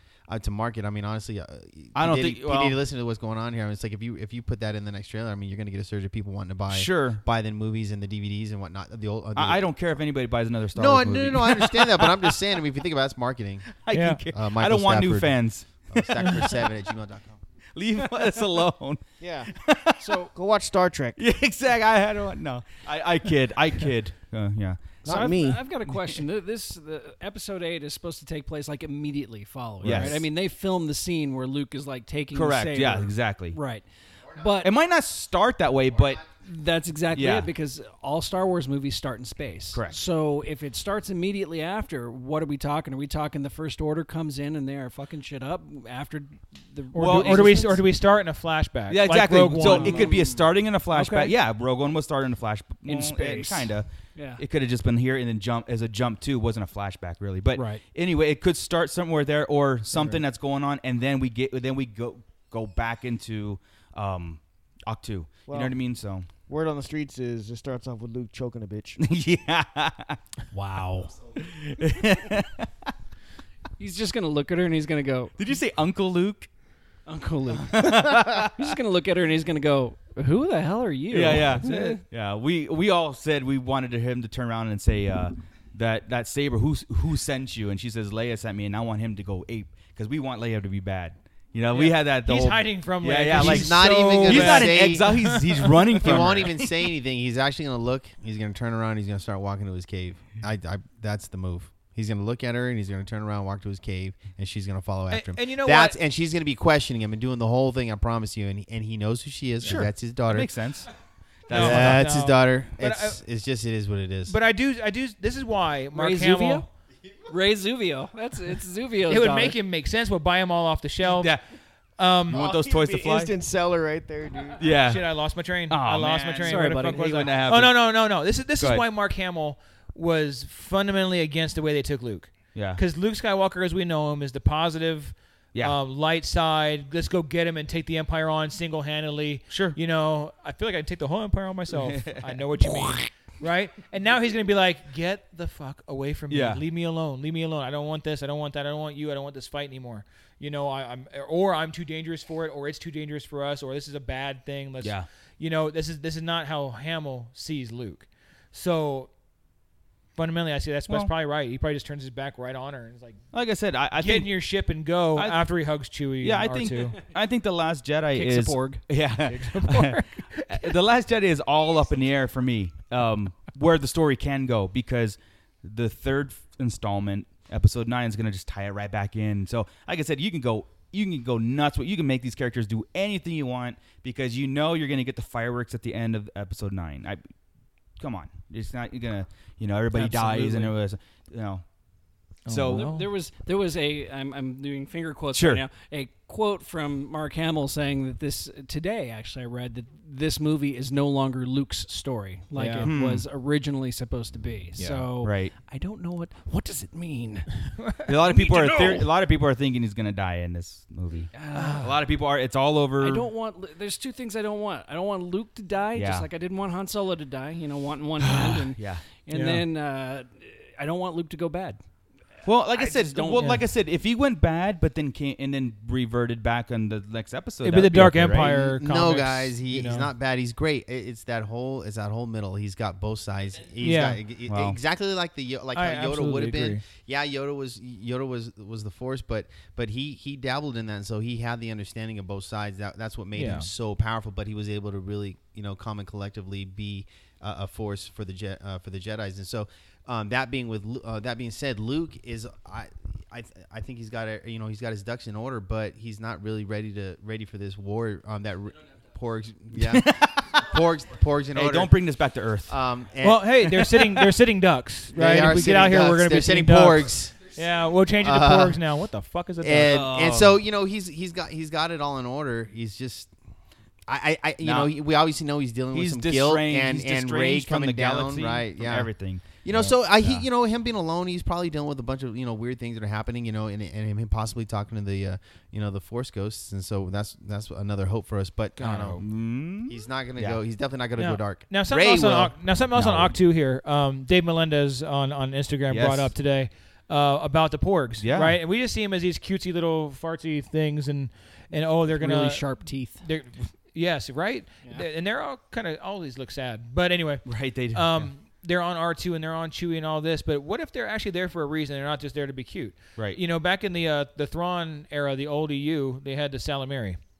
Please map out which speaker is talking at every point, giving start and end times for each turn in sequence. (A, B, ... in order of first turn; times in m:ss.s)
0:00.3-0:09.6 A
0:01.9-0:02.8 B
0:06.7-0:07.2 B
0:09.3-0:12.3 B
0:10.7-0:13.7 A
0:13.7-0:16.5 B
0:13.9-0:14.2 C
0:14.3-0:17.4 A
0:17.7-0:19.0 B
0:19.2-0:19.5 D
0:19.6-0:20.1 B
0:20.0-0:20.3 E
0:20.3-0:21.2 D
0:21.2-0:26.2 B
0:25.0-0:25.6 D
0:25.0-0:34.7 E
0:29.8-0:30.2 B
0:32.3-0:33.6 B
0:34.6-0:36.3 B
0:36.3-0:47.8 E
0:37.1-0:37.5 B
0:39.7-0:40.0 B
0:46.9-0:50.1 C
0:47.0-0:47.6 B
0:48.9-1:06.2 B
0:49.6-0:51.3 E
0:52.8-0:54.4 E
0:57.5-0:57.8 E
1:05.5-1:05.7 D
1:06.5-1:09.0 D
1:09.0-1:10.2 B
1:10.5-1:11.1 E
1:11.4-1:12.9 B
1:13.8-1:15.4 E
1:15.4-1:16.5 B
1:17.0-1:22.0 E
1:17.6-1:18.7 B
1:21.1-1:36.7 B
1:31.7-1:36.4 C
1:33.4-1:35.2 A
1:36.0-1:50.5 A
1:45.1-1:46.0 C
1:49.6-1:50.9 B
1:51.5-1:52.0 B
1:51.5-1:53.2 C
1:51.5-1:54.3 A
1:54.3-1:56.6 C
1:55.9-1:56.6 E
1:57.3-1:59.6 E
1:59.1-2:01.4 C
2:01.0-2:01.4 B
2:02.0-2:02.4 C
2:02.3-2:03.3 B
2:02.3-2:04.6 D
2:04.6-2:05.1 B
2:04.8-2:39.1 C
2:05.7-2:07.8 B
2:06.4-2:07.4 E
2:08.6-2:08.8 B
2:12.5-2:12.8 B
2:19.5-2:19.8 B
2:21.7-2:22.4 B
2:26.3-2:26.6 B
2:34.8-2:35.1 B
2:40.2-2:43.2 C
2:43.3-2:44.3 B
2:44.0-2:47.0 C
2:45.1-3:07.3 B
2:48.1-2:48.8 E
2:49.2-2:50.7 C
3:08.0-3:11.6 B
3:10.0-3:10.7 E
3:10.0-3:10.7 C
3:12.4-3:13.0 C
3:12.5-3:13.0 B
3:12.7-3:29.1 E
3:15.3-3:15.6 B
3:22.5-3:22.9 C
3:22.8-3:23.2 B
3:24.8-3:25.1 C
3:25.2-3:25.5 B
3:27.8-3:28.1 C
3:28.0-3:33.3 B
3:31.3-3:31.9 E
3:31.5-3:31.9 C
3:33.0-3:41.8 E
3:35.9-3:36.3 B
3:38.3-3:39.0 B
3:39.3-3:39.6 C
3:42.4-3:48.6 B
3:42.7-3:43.6 E
3:43.4-3:43.6 C
3:47.6-3:50.1 C
3:48.5-4:21.9 A
3:53.8-3:54.2 C
3:54.5-3:54.8 B
3:55.7-3:56.8 C
4:03.3-4:03.7 C
4:19.8-4:20.6 B
4:21.5-4:22.8 B
4:22.7-4:23.4 A
4:23.2-4:29.9 C
4:23.6-4:24.2 B
4:25.1-4:27.4 A
4:28.2-4:28.8 A
4:29.6-4:33.3 A
4:29.8-4:30.6 B
4:34.1-4:52.6 A
4:34.6-4:34.9 B
4:35.9-4:39.6 B
4:40.2-4:40.4 B
4:48.8-4:49.2 C
4:49.2-4:50.6 B
4:51.2-5:17.2 C
4:52.9-4:53.3 B
4:55.9-4:56.3 B
4:58.2-4:58.6 B
5:02.1-5:03.2 E
5:07.4-5:08.3 B